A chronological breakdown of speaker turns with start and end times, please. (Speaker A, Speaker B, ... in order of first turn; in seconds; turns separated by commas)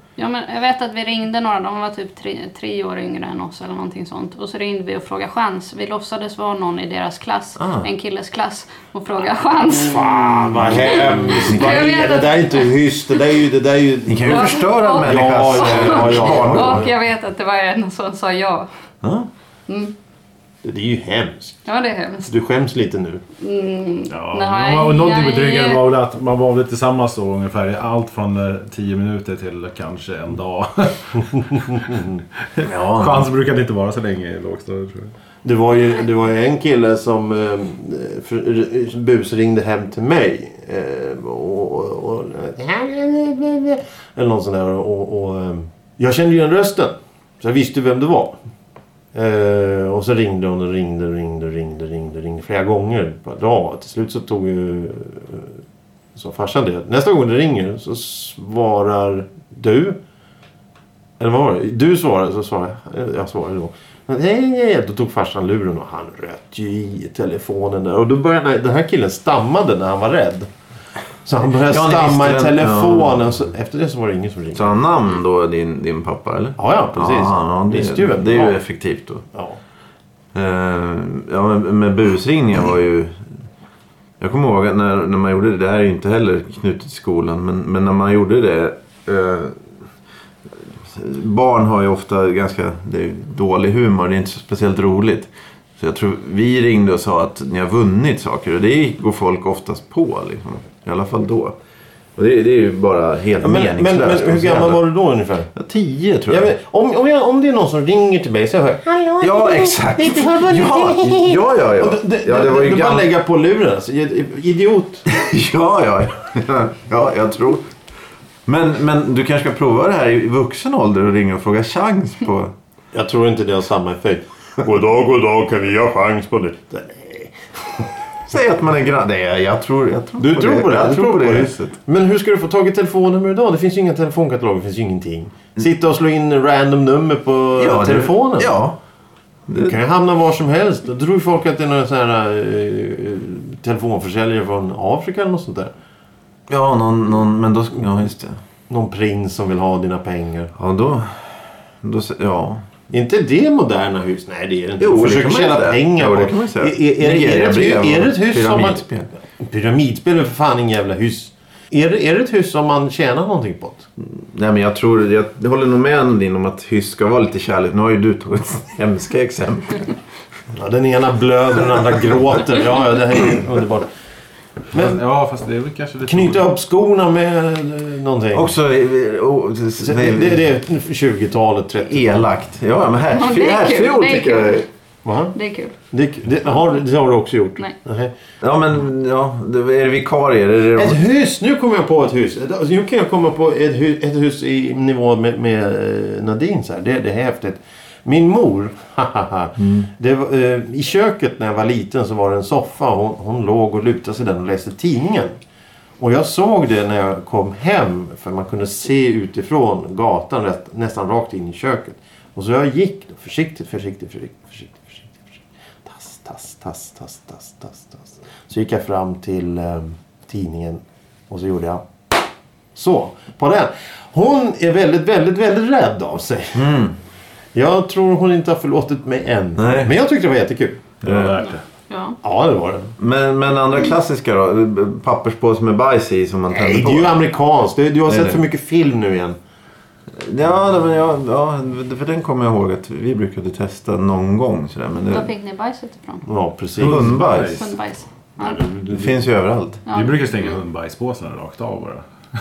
Speaker A: 0.2-12.7, Speaker B: 7.6-7.9, Speaker C: 9.7-16.9, Speaker B: 11.5-11.8, Speaker B: 14.1-16.9, Speaker A: 14.2-18.7, Speaker B: 19.0-19.3, Speaker A: 19.7-19.9, Speaker C: 20.6-21.6, Speaker A: 21.7-22.3, Speaker C: 22.3-23.2, Speaker A: 23.4-25.9, Speaker D: 24.1-35.1, Speaker B: 32.6-33.3, Speaker C: 35.4-48.4, Speaker C: 49.1-55.6, Speaker C: 56.1-60.0, Speaker C: 61.2-70.5, Speaker C: 71.2-74.7, Speaker B: 71.6-73.2, Speaker B: 74.5-79.2, Speaker C: 76.6-78.6, Speaker B: 80.3-83.3, Speaker B: 84.2-89.6, Speaker B: 90.5-101.6, Speaker B: 102.2-104.8, Speaker C: 103.4-105.5, Speaker B: 105.5-106.5, Speaker C: 106.3-115.1, Speaker B: 109.2-113.1, Speaker B: 115.1-117.7, Speaker B: 118.5-122.5, Speaker C: 122.9-127.9, Speaker B: 128.3-131.8, Speaker C: 130.2-138.6, Speaker B: 137.6-138.8, Speaker B: 139.5-139.8, Speaker C: 139.6-145.7, Speaker B: 146.5-148.4, Speaker C: 148.7-150.5, Speaker B: 150.6-152.7, Speaker C: 152.9-158.8, Speaker B: 154.8-159.1, Speaker C: 159.4-163.9, Speaker B: 164.0-169.9, Speaker C: 170.5-173.9, Speaker C: 174.7-175.0, Speaker D: 174.7-176.4, Speaker C: 176.1-178.5, Speaker B: 178.3-180.4, Speaker C: 179.8-182.2, Speaker B: 181.8-184.7, Speaker A: 183.1-184.7, Speaker C: 185.1-185.3, Speaker A: 185.3-185.8, Speaker C: 185.9-188.1, Speaker B: 188.4-191.0, Speaker C: 190.8-205.3, Speaker B: 199.6-199.9, Speaker C: 206.0-221.8, Speaker C: 222.8-226.7, Speaker B: 226.6-227.0, Speaker C: 227.5-230.8, Speaker B: 229.6-229.9, Speaker B: 231.0-231.4, Speaker D: 231.0-231.6, Speaker A: 231.9-232.2, Speaker C: 232.2-232.9, Speaker B: 233.0-237.2, Speaker C: 236.5-239.4, Speaker B: 238.1-238.4, Speaker B: 240.2-245.3, Speaker A: 245.1-246.3, Speaker C: 246.3-247.1, Speaker B: 246.8-247.7, Speaker D: 246.8-247.7, Speaker A: 247.3-248.6, Speaker D: 248.5-248.9, Speaker B: 248.9-249.8, Speaker A: 249.9-250.6, Speaker D: 249.9-252.1